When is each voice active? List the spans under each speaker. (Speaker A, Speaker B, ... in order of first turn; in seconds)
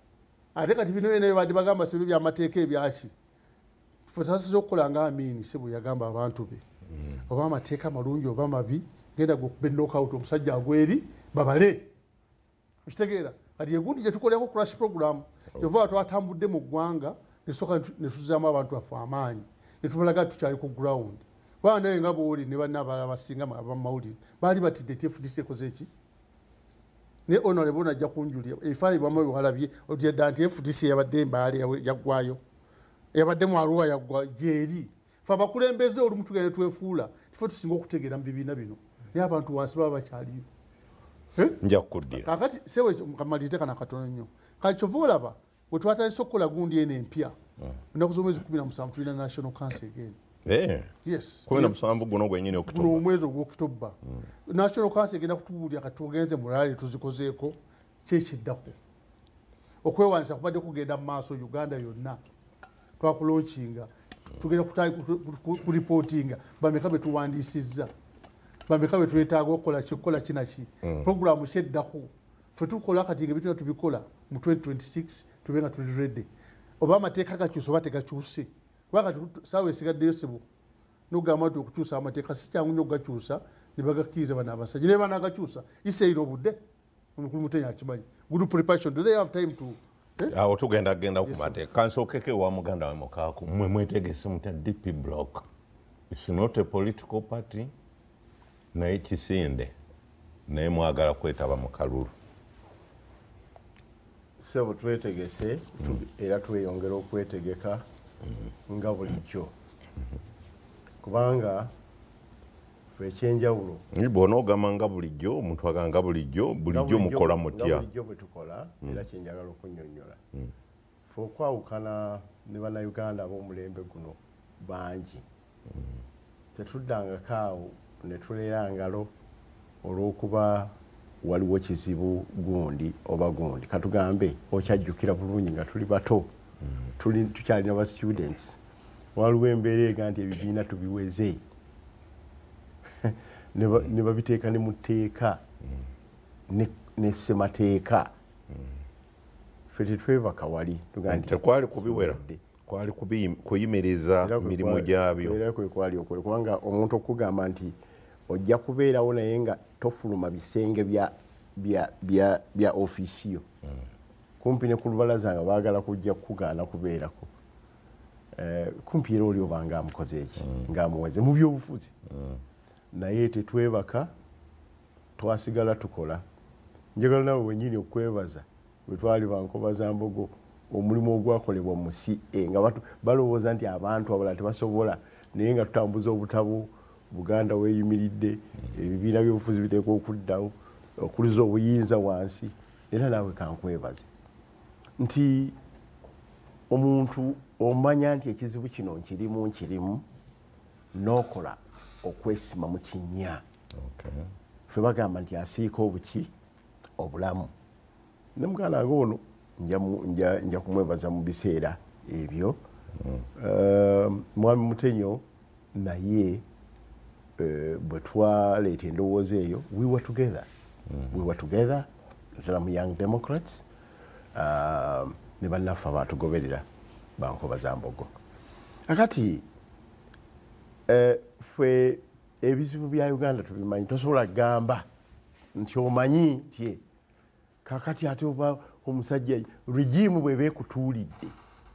Speaker A: 0.6-3.1, 4.1-11.9, 12.9-25.9, 27.3-32.4, 33.1-40.5, 42.1-47.4, 47.9-50.2, 51.0-51.9, 52.6-58.8, 59.8-62.2, 63.0-67.9, 68.7-76.3, 76.8-80.4, 81.1-86.6, 87.2-90.3, 91.2-91.6
Speaker B: 41.6-42.3, 50.5-50.9, 51.5-53.0, 90.3-95.4, 96.1-97.7, 98.7-99.7, 100.5-102.1, 113.9-117.9, 151.1-155.4, 203.8-204.3
Speaker C: 104.4-107.8, 108.7-109.5, 111.0-111.7, 112.9-113.8, 116.7-120.2, 121.1-125.2, 126.5-129.1, 129.8-136.3, 137.0-138.6, 139.2-141.4, 143.0-145.4, 146.5-148.1, 149.7-152.4, 154.2-157.8, 158.3-163.4, 164.4-167.3, 168.3-171.9, 172.9-174.1, 175.2-176.2, 176.9-194.1, 195.0-195.6, 196.7-200.0, 200.9-203.4, 204.7-206.3, 207.0-207.5, 208.3-212.6, 213.4-215.2, 215.7-216.4, 217.4-220.5, 221.1-223.7, 224.3-226.7, 227.2-228.1, 228.9-229.5, 230.9-234.9, 235.5-236.8, 237.7-241.3